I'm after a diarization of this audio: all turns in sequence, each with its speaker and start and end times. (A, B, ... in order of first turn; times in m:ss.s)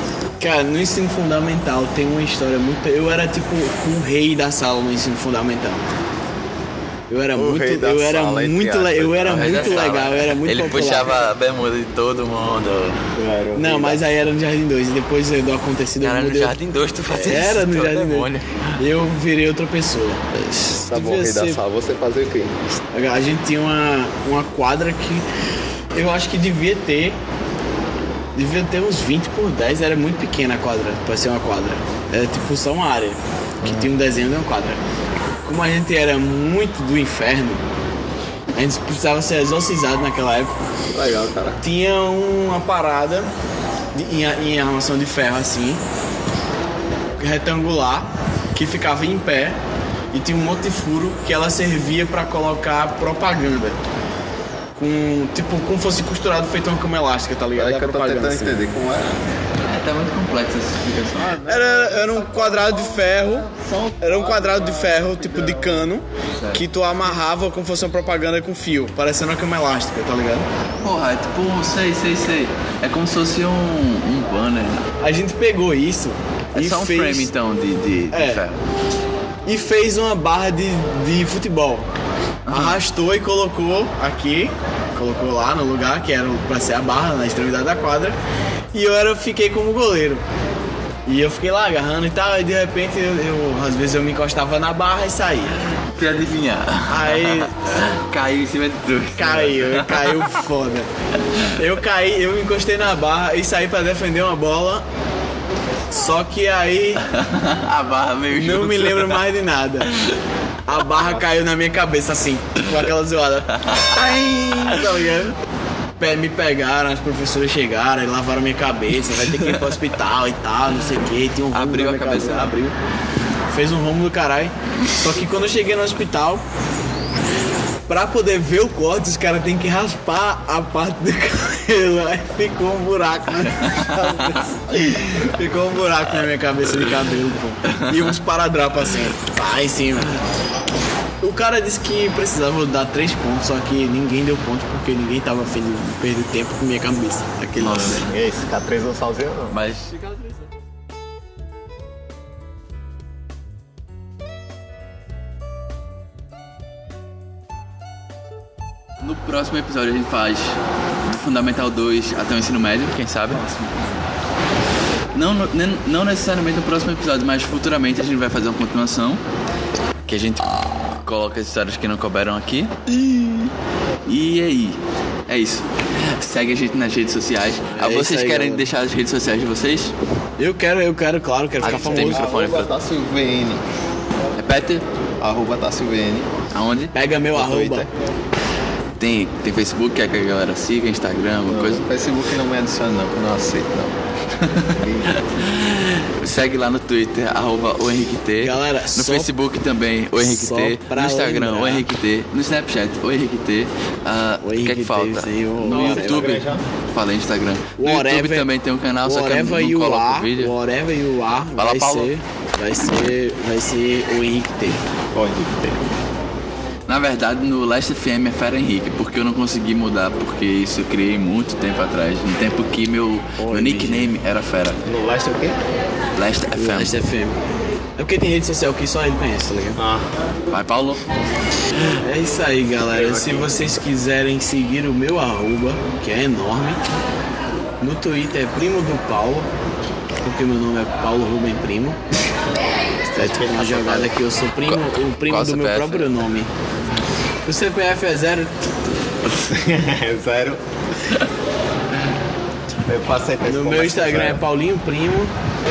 0:00.4-0:05.8 A
0:07.1-0:11.1 A
0:07.3-0:09.9 B
0:09.2-0:13.1 C
0:13.1-0:14.0 B
0:13.5-0:16.6 A
0:16.0-0:18.8 C
0:17.1-0:21.6 A
0:20.9-0:22.6 B
0:22.9-0:25.2 A
0:25.9-0:27.2 A
0:28.3-0:34.8 A
0:33.6-0:33.9 B
0:35.4-0:37.6 A
0:38.5-0:40.6 A
0:40.9-0:41.6 B
0:41.6-0:43.3 A
0:43.9-0:45.8 A
0:47.2-0:49.6 A
0:50.1-0:53.8 A
0:54.8-0:58.6 A
0:57.5-0:59.2 B
0:59.6-1:01.4 C
1:01.4-1:10.5 A
1:01.4-1:02.2 B
1:03.5-1:05.8 B
1:10.8-1:14.8 C
1:15.0-1:17.3 A
1:16.5-1:18.6 C
1:18.1-1:18.4 A
1:19.4-1:21.9 A
1:22.4-1:22.8 C
1:22.5-1:28.2 A
1:28.7-1:30.2 A
1:31.0-1:35.6 A
1:35.6-1:40.4 C
1:36.9-1:37.7 A
1:39.2-1:40.9 A
1:41.6-1:44.8 A
1:45.9-1:47.0 A
1:47.0-1:49.2 C
1:48.3-1:49.9 A
1:49.9-1:50.2 C
1:50.7-1:55.4 A
1:53.5-1:55.0 C
1:56.0-2:02.8 A
1:59.1-1:59.8 C
2:01.5-2:02.6 C
2:03.5-2:06.4 A
2:07.9-2:20.2 A
2:13.6-2:14.3 C
2:14.0-2:15.2 B
2:17.7-2:18.1 C
2:21.2-2:28.0 A
2:27.6-2:29.6 B
2:27.6-2:28.1 C
2:29.5-2:30.1 C
2:39.0-2:43.6 C
2:43.5-2:43.8 A
2:45.1-2:49.2 C
2:50.0-2:53.5 C
2:54.0-2:59.9 C
2:57.7-2:58.7 A
3:00.4-3:02.2 A
3:01.6-3:02.7 C
3:01.6-3:03.6 B
3:04.4-3:04.8 C
3:05.2-3:06.3 B
3:06.5-3:06.9 C
3:06.9-3:07.9 A
3:07.3-3:07.9 B
3:09.0-3:11.8 C
3:11.5-3:13.9 B
3:14.4-3:30.5 C
3:14.7-3:15.3 B
3:18.4-3:19.3 A
3:20.2-3:21.9 A
3:24.4-3:26.4 A
3:25.6-3:26.6 B
3:27.8-3:28.5 A
3:29.0-3:34.8 A
3:31.6-3:32.1 C
3:35.1-3:35.9 B
3:36.9-3:44.8 C
3:43.4-3:44.1 A
3:44.8-3:45.6 B
3:46.1-3:47.0 C
3:46.5-3:47.4 A
3:48.0-3:49.8 A
3:49.8-3:50.2 B
3:50.5-3:51.1 C
3:51.8-3:56.8 A
3:52.9-3:53.7 B
3:57.8-3:59.5 A
4:00.2-4:02.0 A
4:03.1-4:04.1 B
4:03.1-4:06.5 A
4:04.6-4:06.2 C
4:07.4-4:08.7 A
4:09.4-4:10.6 B
4:12.9-4:14.4 B
4:13.5-4:15.3 A